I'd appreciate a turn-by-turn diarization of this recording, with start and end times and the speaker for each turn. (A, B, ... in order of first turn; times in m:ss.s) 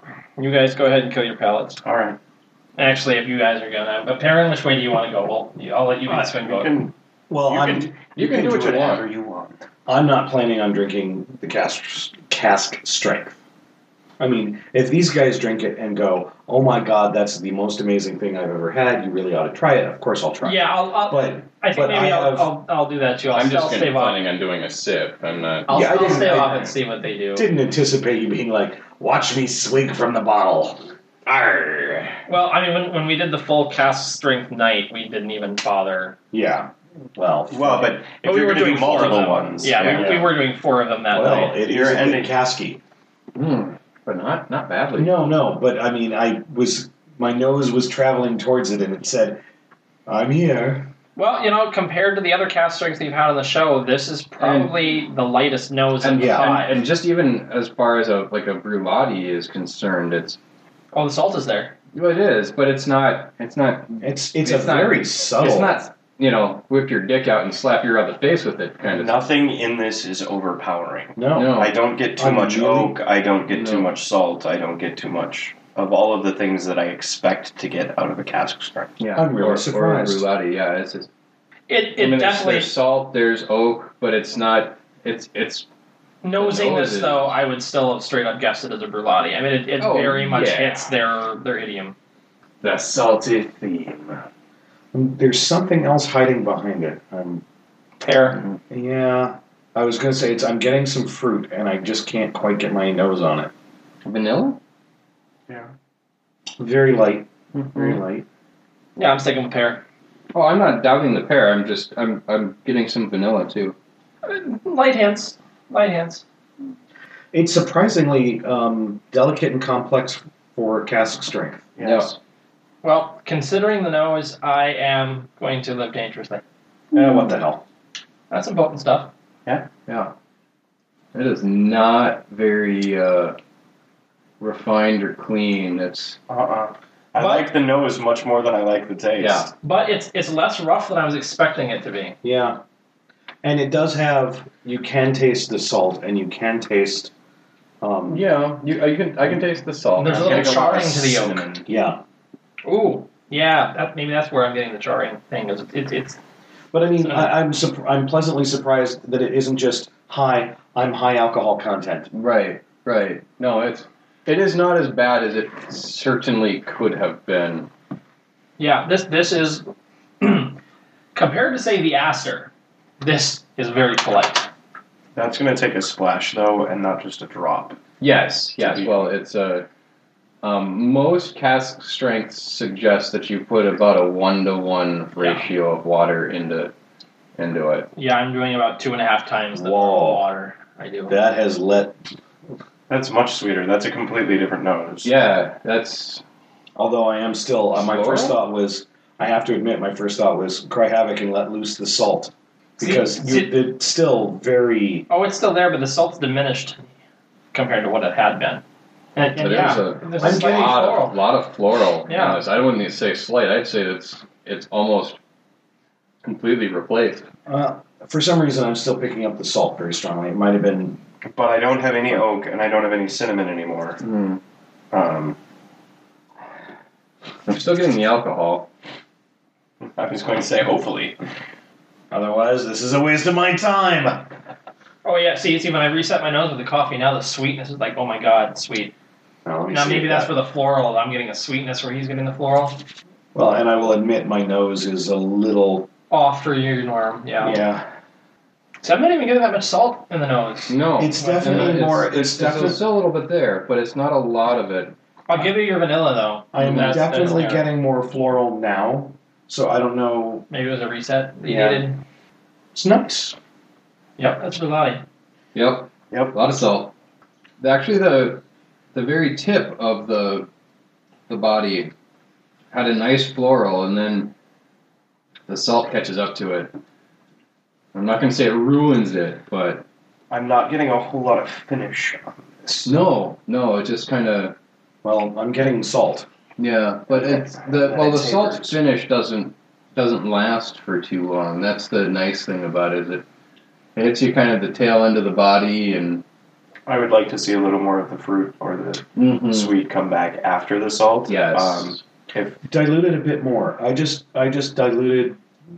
0:00.4-0:01.8 A
0:01.8-0:02.2 B
0:02.8-0:06.7 A
0:06.1-0:06.9 B
0:07.3-0:13.4 C
0:07.4-0:07.9 B
0:08.2-0:09.0 D
0:14.2-0:22.5 C
0:20.4-0:24.2 A
0:23.3-0:25.8 D
0:25.7-0:27.5 A
0:25.7-0:26.7 C
0:27.3-0:32.2 C
0:32.3-0:36.2 A
0:36.3-0:38.0 C
0:37.5-0:40.2 B
0:38.2-0:41.6 A
0:39.9-0:40.2 C
0:41.1-0:42.8 C
0:41.6-0:42.3 B
0:43.3-0:45.2 D
0:45.0-0:49.4 C
0:50.0-0:50.9 C
0:51.2-0:56.7 A
0:54.4-0:54.7 D
0:56.0-1:00.4 D
0:56.2-0:56.6 C
1:00.9-1:01.7 A
1:01.9-1:09.2 D
1:04.0-1:05.8 C
1:08.8-1:19.0 B
1:11.2-1:11.6 C
1:11.3-1:11.7 D
1:12.2-1:13.0 C
1:13.5-1:13.9 D
1:19.0-1:21.1 D
1:19.2-1:20.3 C
1:21.7-1:22.7 A
1:22.0-1:25.7 D
1:26.2-1:31.9 A
1:26.4-1:27.3 D
1:29.8-1:30.9 D
1:32.6-1:34.2 D
1:34.9-1:37.4 C
1:38.0-1:38.4 A
1:38.7-1:43.5 C
1:44.0-1:44.6 D
1:46.6-1:48.2 C
1:47.5-1:48.0 D
1:49.0-1:49.8 A
1:50.3-1:53.8 D
1:54.2-1:56.2 A
1:57.3-2:01.7 C
2:01.8-2:02.2 B
2:01.8-2:02.2 D
2:02.8-2:06.4 A
2:06.9-2:07.6 C
2:08.3-2:09.1 A
2:09.9-2:10.1 D
2:11.1-2:13.4 D
2:14.4-2:16.2 D
2:16.3-2:19.5 B
2:17.2-2:17.5 A
2:19.2-2:19.5 D
2:19.6-2:22.2 A
2:22.2-2:22.6 C
2:23.4-2:27.1 C
2:27.8-2:28.2 C
2:28.1-2:30.8 D
2:30.0-2:31.4 A
2:30.1-2:31.6 B
2:31.7-2:32.0 C
2:32.6-2:36.2 A
2:36.7-2:42.1 C
2:37.0-2:37.4 A
2:42.1-2:47.7 D
2:48.6-2:49.7 A
2:50.2-2:50.6 A
2:51.1-2:54.5 A
2:55.1-2:57.8 B
2:58.0-2:59.7 D
2:58.6-2:59.1 B
3:00.4-3:06.7 D
3:07.4-3:07.9 D
3:08.0-3:11.2 A
3:09.5-3:10.2 C
3:11.1-3:12.0 C
3:12.9-3:15.1 B
3:15.0-3:16.2 D
3:16.8-3:25.1 C
3:17.7-3:18.4 D
3:22.8-3:23.5 A
3:25.1-3:26.8 A
3:27.5-3:28.6 A
3:29.1-3:31.2 A
3:29.4-3:35.2 D
3:30.2-3:31.0 C
3:32.1-3:32.4 A
3:36.2-3:37.3 D
3:37.5-3:41.0 C
3:41.2-3:44.0 B
3:44.0-3:44.4 D
3:44.9-3:45.4 B
3:47.5-3:48.7 D
3:49.8-3:51.2 B
3:52.1-3:54.3 C
3:55.0-3:58.9 A
3:59.4-4:00.3 C
3:59.7-4:02.8 A
4:03.3-4:05.9 C
4:06.1-4:07.6 A
4:07.4-4:07.9 C
4:08.8-4:11.8 A
4:10.7-4:15.0 D
4:11.0-4:12.8 C
4:15.3-4:17.7 A
4:16.5-4:20.5 C
4:16.6-4:16.9 D
4:20.5-4:22.0 A
4:21.4-4:21.8 C
4:22.7-4:23.4 C
4:24.2-4:25.0 A
4:25.5-4:26.9 D
4:27.6-4:28.4 D
4:28.9-4:30.5 D
4:31.3-4:31.9 D
4:32.7-4:34.3 D
4:35.5-4:36.7 D
4:37.9-4:39.8 D
4:40.3-4:42.9 B
4:42.8-4:44.6 D
4:45.0-4:46.3 C
4:46.6-4:53.2 D
4:47.2-4:48.7 B
4:47.8-4:48.4 C
4:53.9-4:56.2 D
4:56.8-5:02.6 B
4:59.2-4:59.7 D
5:01.3-5:02.0 D
5:02.7-5:05.4 C